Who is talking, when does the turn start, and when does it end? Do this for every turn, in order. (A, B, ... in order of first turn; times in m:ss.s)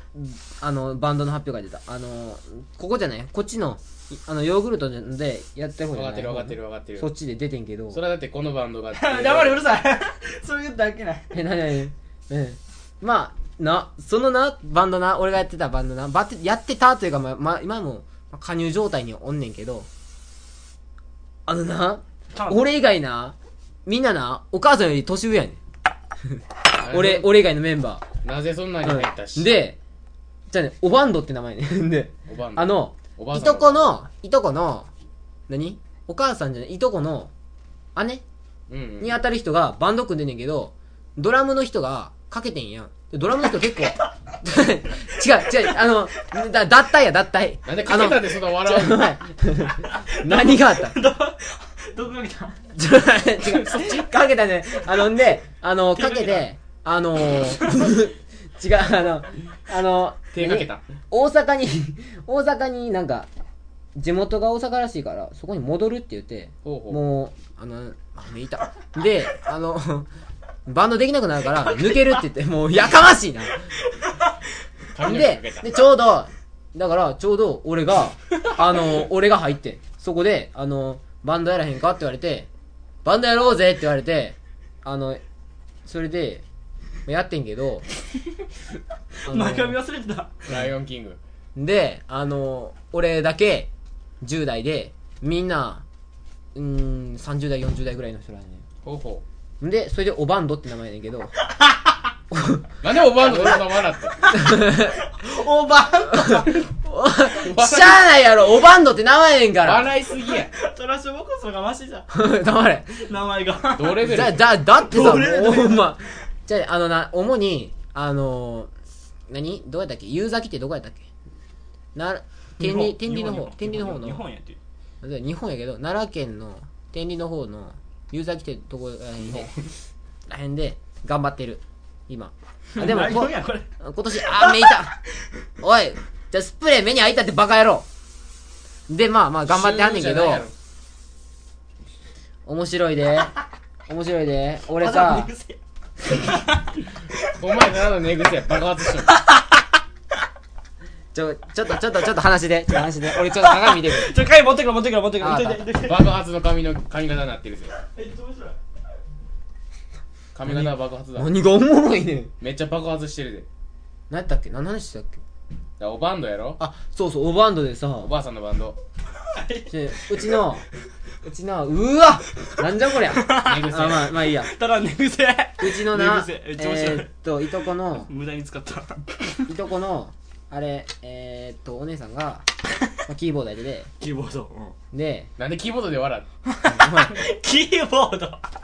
0:00.1-0:08.0 A
0:05.9-0:07.1 B
0:07.9-0:09.7 B
0:08.9-0:11.3 C
0:11.3-0:19.9 A
0:21.5-0:25.6 A
0:22.3-0:22.6 C
0:26.3-0:28.0 A
0:26.8-0:27.4 B
0:28.2-0:29.5 B
0:28.8-0:29.8 A
0:30.5-0:34.9 A
0:32.3-0:34.0 B
0:35.5-0:37.3 A
0:38.0-0:38.2 A
0:38.7-0:39.2 B
0:39.0-0:51.0 A
0:43.4-0:44.1 C
0:45.2-0:45.7 C
0:47.6-0:49.1 B
0:49.8-0:52.6 C
0:52.8-1:03.3 A
0:53.6-0:54.0 C
0:56.0-0:56.5 C
0:57.4-0:57.9 C
1:00.3-1:00.8 B
1:04.0-1:10.1 A
1:06.6-1:07.0 B
1:10.6-1:13.7 A
1:14.9-1:15.8 B
1:15.0-1:22.5 A
1:23.0-1:25.2 A
1:25.8-1:26.4 A
1:27.0-1:27.8 A
1:29.2-1:29.8 A
1:29.2-1:30.6 C
1:30.5-1:31.2 B
1:31.6-1:33.7 A
1:34.2-1:35.8 A
1:36.5-1:38.6 A
1:38.8-1:39.2 B
1:39.6-1:41.4 A
1:42.3-1:43.6 A
1:42.8-1:44.2 B
1:44.1-1:46.6 C
1:44.3-1:45.0 A
1:46.1-1:49.9 A
1:47.4-1:48.0 B
1:49.6-1:50.5 B
1:50.1-1:52.1 C
1:52.1-1:53.0 A
1:52.9-1:56.0 C
1:53.7-1:54.5 B
1:54.0-1:58.7 A
1:59.3-2:01.0 A
2:02.0-2:04.2 A
2:02.6-2:04.6 C
2:05.0-2:09.5 A
2:10.3-2:15.0 A
2:12.8-2:14.8 C
2:15.6-2:17.9 A
2:18.9-2:20.5 A
2:19.4-2:20.5 B
2:22.5-2:23.3 A
2:23.9-2:25.3 A
2:24.8-2:27.4 C
2:27.4-2:29.1 B
2:29.0-2:29.6 C
2:31.1-2:34.1 A
2:33.0-2:36.1 C
2:35.2-2:35.6 A
2:35.8-2:37.7 B
2:37.8-2:38.6 C
2:40.3-2:41.3 B
2:40.4-2:42.3 A
2:42.4-2:43.5 B
2:44.1-2:45.2 A
2:45.8-2:46.6 B
2:46.6-2:48.1 A
2:48.0-2:48.8 B
2:49.2-2:50.4 C
2:49.7-2:50.6 A
2:51.2-2:54.5 A
2:52.9-2:57.1 C
2:53.4-2:54.1 B
2:55.6-2:58.1 A
2:57.9-2:59.5 C
2:59.5-3:02.5 A
3:03.0-3:03.9 A
3:04.0-3:04.8 C
3:04.9-3:05.3 A
3:05.4-3:06.3 B
3:06.4-3:08.5 C
3:06.6-3:07.2 A